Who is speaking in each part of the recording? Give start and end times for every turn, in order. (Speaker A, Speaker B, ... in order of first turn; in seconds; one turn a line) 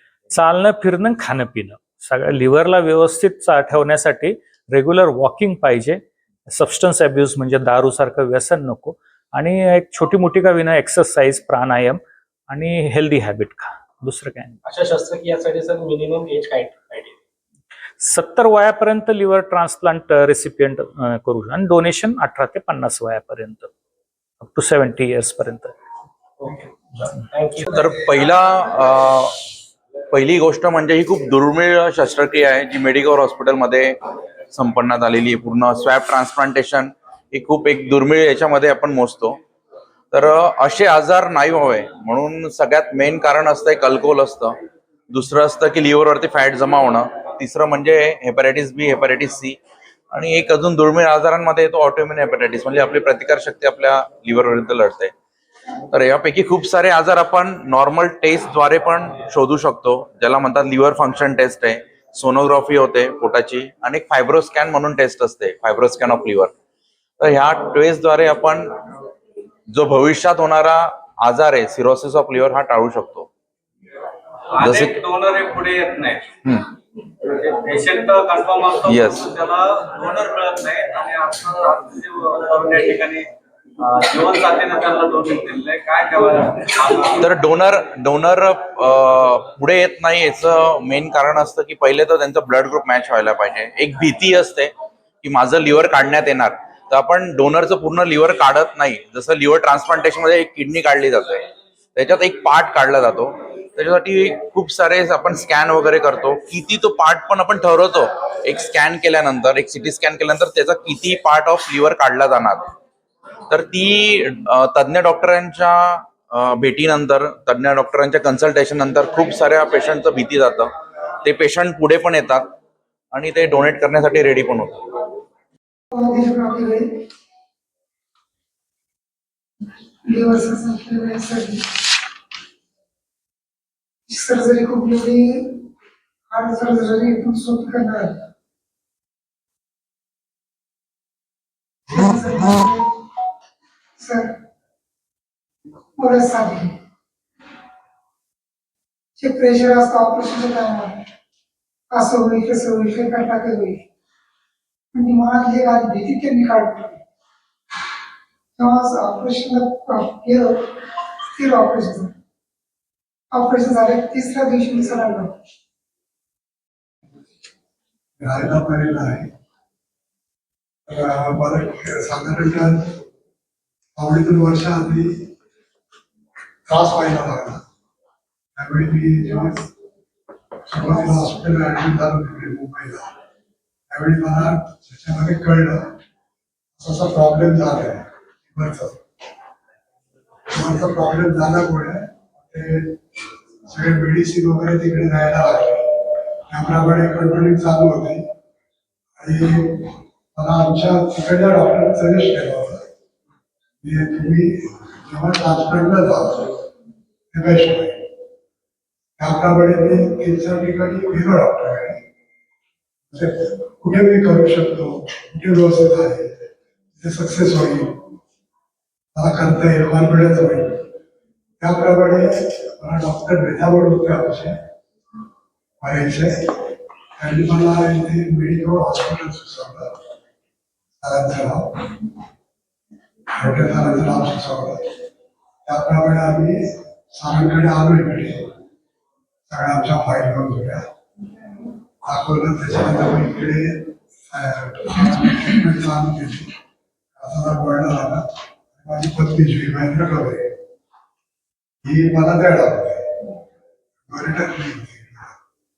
Speaker A: 0.3-12.0
Speaker A: 12.5-14.6
Speaker B: 14.8-17.2
Speaker A: 18.0-23.7
Speaker A: 24.4-25.7
Speaker B: 27.3-27.7
Speaker C: 27.6-29.3
Speaker C: 30.1-34.0
Speaker C: 34.5-39.4
Speaker C: 40.1-44.6
Speaker C: 45.1-49.6
Speaker C: 50.1-55.1
Speaker C: 55.9-66.5
Speaker C: 67.2-68.8
Speaker C: 69.7-73.3
Speaker D: 74.5-76.3
Speaker C: 74.6-75.0
Speaker D: 77.2-83.3
Speaker C: 78.8-79.3
Speaker D: 83.8-87.2
Speaker C: 87.2-94.7
Speaker C: 95.2-101.4
Speaker C: 102.0-112.7
Speaker C: 113.5-120.7
Speaker C: 121.2-122.5
Speaker C: 123.1-124.8
Speaker E: 125.9-126.9
Speaker E: 130.1-131.6
Speaker E: 134.1-135.7
Speaker E: 136.3-138.2
Speaker E: 141.9-142.8
Speaker E: 144.0-144.3
Speaker E: 146.0-146.7
Speaker E: 149.2-151.1
Speaker E: 151.9-153.8
Speaker E: 154.9-157.0
Speaker E: 158.6-160.6
Speaker E: 161.3-162.1
Speaker E: 163.3-165.3
Speaker F: 168.2-169.3
Speaker F: 170.9-172.8
Speaker F: 174.0-175.2
Speaker F: 176.7-177.6
Speaker F: 178.6-179.7
Speaker F: 180.7-183.1
Speaker F: 183.9-185.8
Speaker F: 186.8-189.0
Speaker F: 190.5-193.0
Speaker F: 193.7-195.9
Speaker F: 196.5-198.2
Speaker F: 199.2-202.8
Speaker F: 203.8-206.6
Speaker F: 207.3-208.0
Speaker F: 209.2-212.0
Speaker F: 213.1-216.3
Speaker F: 217.0-218.0
Speaker F: 219.2-220.8
Speaker F: 221.6-224.5
Speaker F: 225.8-226.6
Speaker F: 227.2-229.9
Speaker F: 231.0-232.0
Speaker F: 233.3-234.8
Speaker F: 235.7-236.6
Speaker F: 237.1-238.4
Speaker F: 239.5-240.8
Speaker F: 242.0-246.5
Speaker F: 247.2-248.2
Speaker F: 248.8-250.4
Speaker F: 251.8-253.0
Speaker F: 254.1-255.3